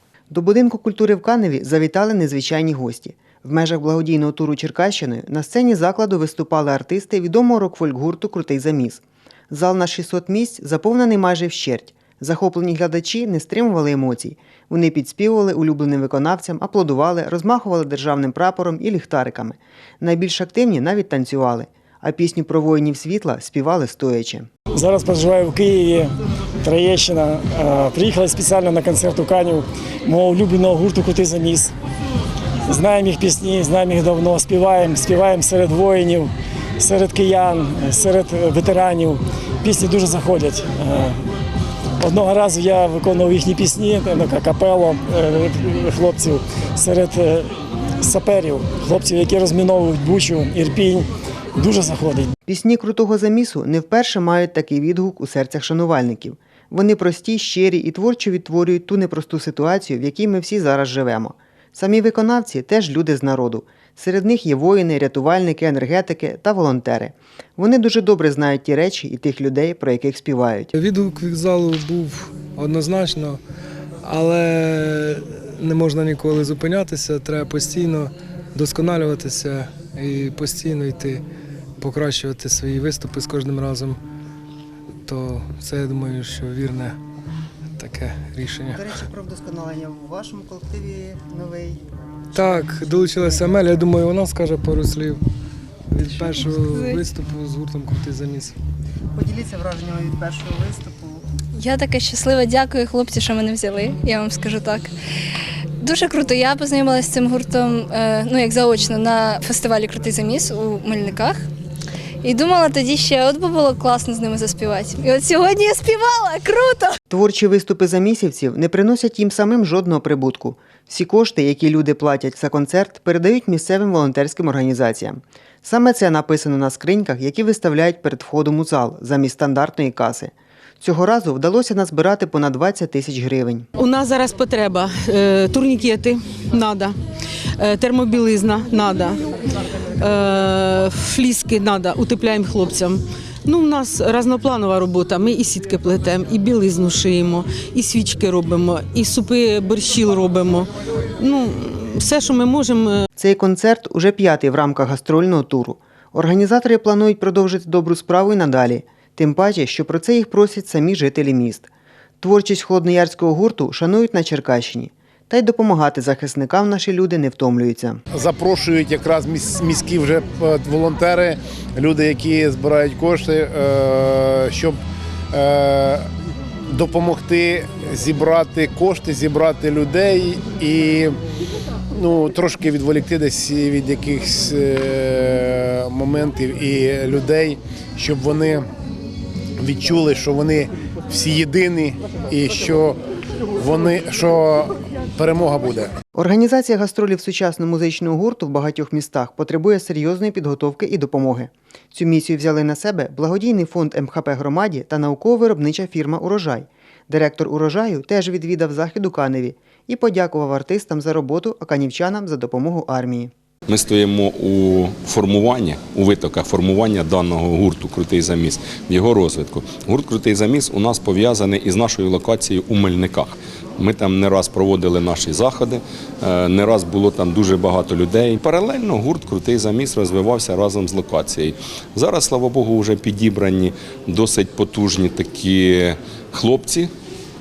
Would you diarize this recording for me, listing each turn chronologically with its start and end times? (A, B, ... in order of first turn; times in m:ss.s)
0:00.3-0:24.5 A
0:24.7-0:26.1 B
0:26.6-0:31.7 B
0:32.7-0:41.2 B
0:42.0-0:47.5 B
0:48.0-0:52.3 B
0:52.5-1:10.7 A
1:10.7-1:13.4 C
1:14.0-1:21.2 C
1:21.8-1:24.0 C
1:25.1-1:27.0 C
1:27.8-1:28.8 C
1:28.7-1:31.8 A
1:32.4-1:35.2 C
1:35.9-1:38.5 C
1:39.1-1:41.2 A
1:41.6-1:44.9 D
1:45.8-1:51.4 D
1:52.2-1:56.9 D
1:57.1-2:13.7 A
2:13.8-2:17.0 E
2:17.6-2:19.2 E
2:20.0-2:33.1 E
2:33.2-2:41.7 A
2:42.2-2:48.0 A
2:48.1-2:54.8 F
2:55.3-2:56.1 F
2:56.7-3:01.2 F
3:02.0-3:08.6 F
3:09.6-3:13.0 F
3:13.6-3:15.9 F
3:16.2-3:33.3 A
3:33.7-3:56.9 G